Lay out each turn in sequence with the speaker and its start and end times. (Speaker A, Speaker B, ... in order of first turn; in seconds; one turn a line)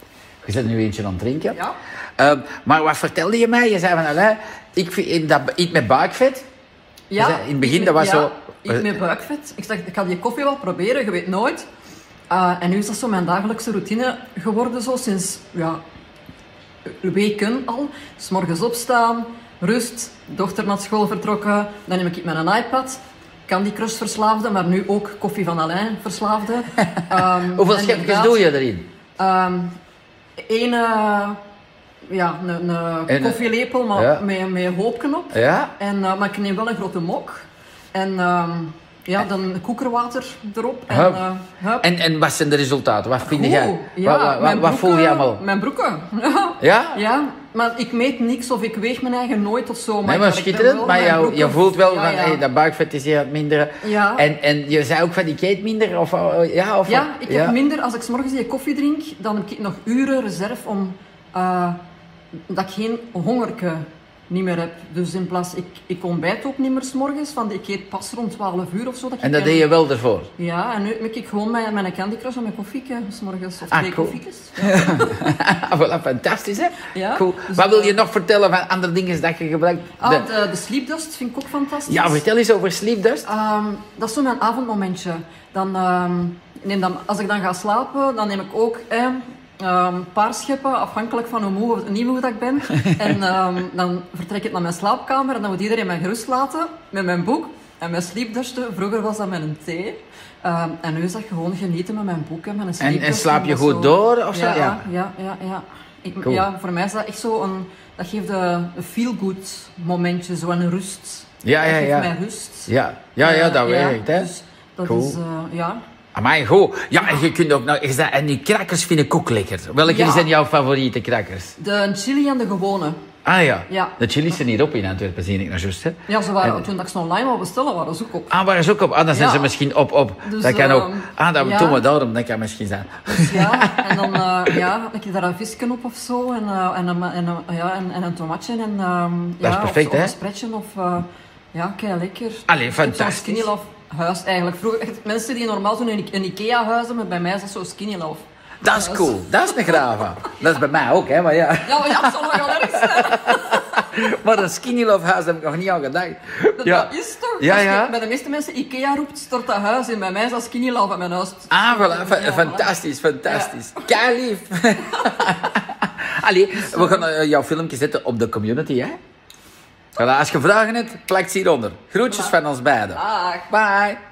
Speaker A: 0.4-1.6
Speaker A: 2.2-6.5
Speaker B: 7.1-11.6
Speaker A: 7.2-8.8
Speaker B: 12.3-15.8
Speaker B: 17.0-28.4
Speaker A: 27.1-28.9
Speaker B: 29.2-29.8
Speaker B: 30.4-31.4
Speaker B: 32.1-41.9
Speaker A: 33.1-34.2
Speaker A: 35.3-35.7
Speaker A: 40.9-41.2
Speaker A: 41.8-45.4
Speaker B: 43.2-52.4
Speaker A: 46.6-47.0
Speaker A: 50.0-57.5
Speaker B: 53.8-54.3
Speaker B: 56.9-61.8
Speaker B: 62.5-69.7
Speaker A: 69.2-70.3
Speaker B: 70.4-75.2
Speaker A: 73.7-80.3
Speaker B: 76.9-78.0
Speaker B: 80.0-82.2
Speaker A: 81.9-83.3
Speaker B: 83.2-112.7
Speaker A: 102.8-104.8
Speaker A: 111.4-112.1
Speaker A: 112.7-114.3
Speaker B: 113.2-115.8
Speaker A: 114.9-115.2
Speaker A: 116.1-121.5
Speaker B: 119.9-120.3
Speaker B: 121.6-123.0
Speaker A: 123.2-126.6
Speaker B: 123.7-124.0
Speaker B: 126.1-128.3
Speaker A: 128.3-134.5
Speaker B: 129.1-129.6
Speaker B: 130.2-131.8
Speaker B: 133.1-150.4
Speaker A: 139.4-140.1
Speaker A: 142.5-143.5
Speaker A: 148.6-156.9
Speaker B: 151.6-153.9
Speaker B: 156.6-163.9
Speaker A: 157.4-157.9
Speaker A: 161.5-169.0
Speaker B: 166.6-167.0
Speaker A: 169.9-174.0
Speaker B: 172.1-172.3
Speaker B: 172.9-173.5